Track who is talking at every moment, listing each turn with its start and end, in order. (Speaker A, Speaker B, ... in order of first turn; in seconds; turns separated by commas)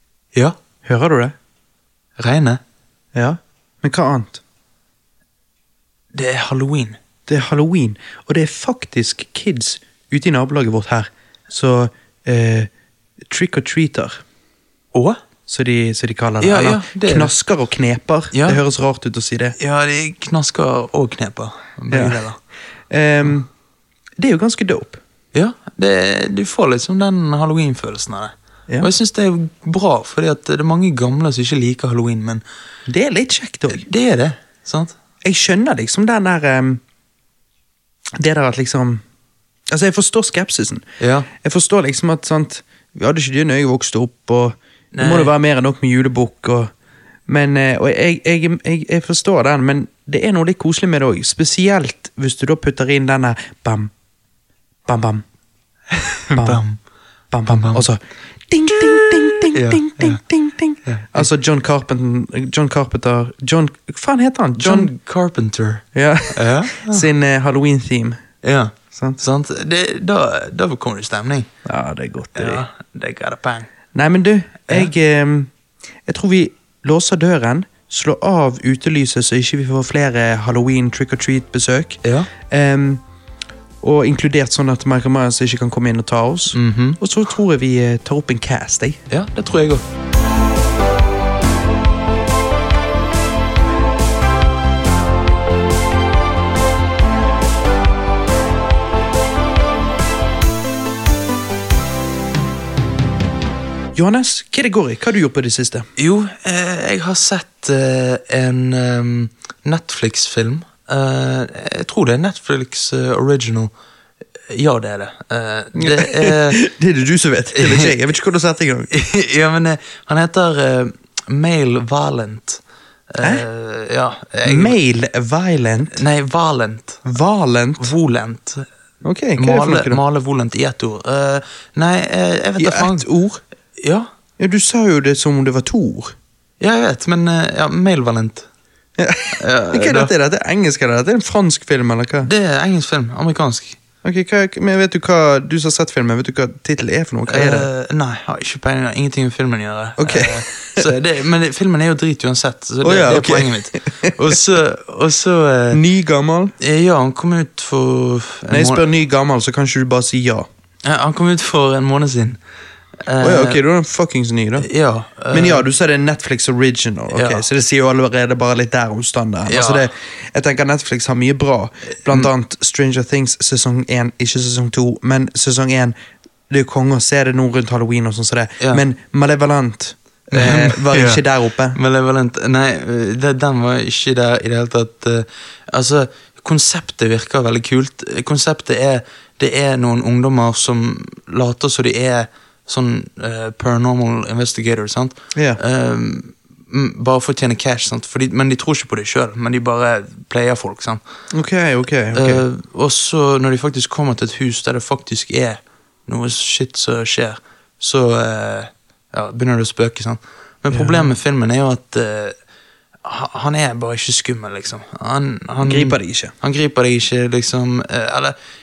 Speaker A: 0.8-1.3, Speaker B: 2.2-2.6, Speaker A: 3.1-4.4, Speaker B: 6.1-7.0, Speaker A: 7.3-12.7, Speaker A: 13.3-14.2, Speaker B: 14.9-15.2, Speaker A: 15.5-19.6, Speaker B: 16.4-17.3, Speaker B: 18.3-18.6, Speaker B: 19.6-22.4, Speaker A: 21.9-22.3, Speaker A: 22.9-23.5, Speaker A: 24.2-25.0, Speaker B: 25.3-32.4, Speaker A: 32.9-33.9, Speaker B: 33.7-35.0, Speaker A: 35.2-36.8, Speaker A: 38.2-39.0, Speaker A: 39.7-40.8, Speaker B: 41.0-41.3, Speaker A: 41.4-46.7, Speaker B: 44.9-45.3, Speaker A: 47.3-53.9, Speaker A: 54.9-55.2, Speaker B: 55.9-56.8, Speaker A: 56.3-56.6, Speaker A: 57.3-64.9, Speaker B: 57.5-57.8, Speaker B: 59.5-60.2, Speaker B: 60.9-61.2, Speaker B: 64.6-67.0, Speaker A: 65.9-68.2, Speaker B: 68.4-71.5, Speaker A: 68.9-69.2, Speaker A: 71.7-72.6, Speaker B: 72.4-73.7, Speaker A: 73.9-75.5, Speaker A: 76.0-83.0, Speaker B: 82.0-82.3, Speaker A: 83.8-89.0, Speaker B: 86.5-87.0, Speaker B: 89.1-89.8, Speaker A: 104.0-105.9, Speaker B: 106.0-113.7, Speaker B: 114.5-116.6, Speaker A: 115.8-118.9, Speaker B: 117.5-118.0, Speaker B: 118.9-124.8, Speaker A: 124.4-126.0, Speaker B: 125.9-127.0, Speaker A: 127.0-127.9, Speaker B: 127.8-128.7, Speaker A: 129.0-130.0, Speaker B: 129.4-133.1, Speaker A: 132.6-133.4, Speaker B: 133.8-134.1, Speaker A: 134.4-136.2, Speaker B: 136.6-138.5, Speaker A: 139.0-142.3, Speaker B: 139.3-140.1, Speaker B: 142.2-143.8, Speaker A: 144.0-147.7, Speaker B: 147.3-155.8, Speaker A: 150.0-150.9, Speaker A: 152.8-154.4, Speaker A: 155.7-156.5, Speaker B: 156.6-158.8, Speaker A: 158.5-160.5, Speaker B: 160.8-162.4, Speaker B: 163.0-163.6, Speaker A: 163.2-164.7, Speaker B: 164.6-165.7, Speaker A: 165.3-175.9, Speaker B: 167.1-167.4, Speaker B: 169.5-169.9, Speaker A: 176.5-181.8, Speaker B: 180.3-181.2, Speaker B: 181.8-201.0, Speaker A: 195.3-195.6, Speaker A: 201.3-202.4, Speaker B: 202.1-212.4, Speaker A: 210.7-211.1, Speaker B: 213.0-218.4, Speaker A: 215.6-216.3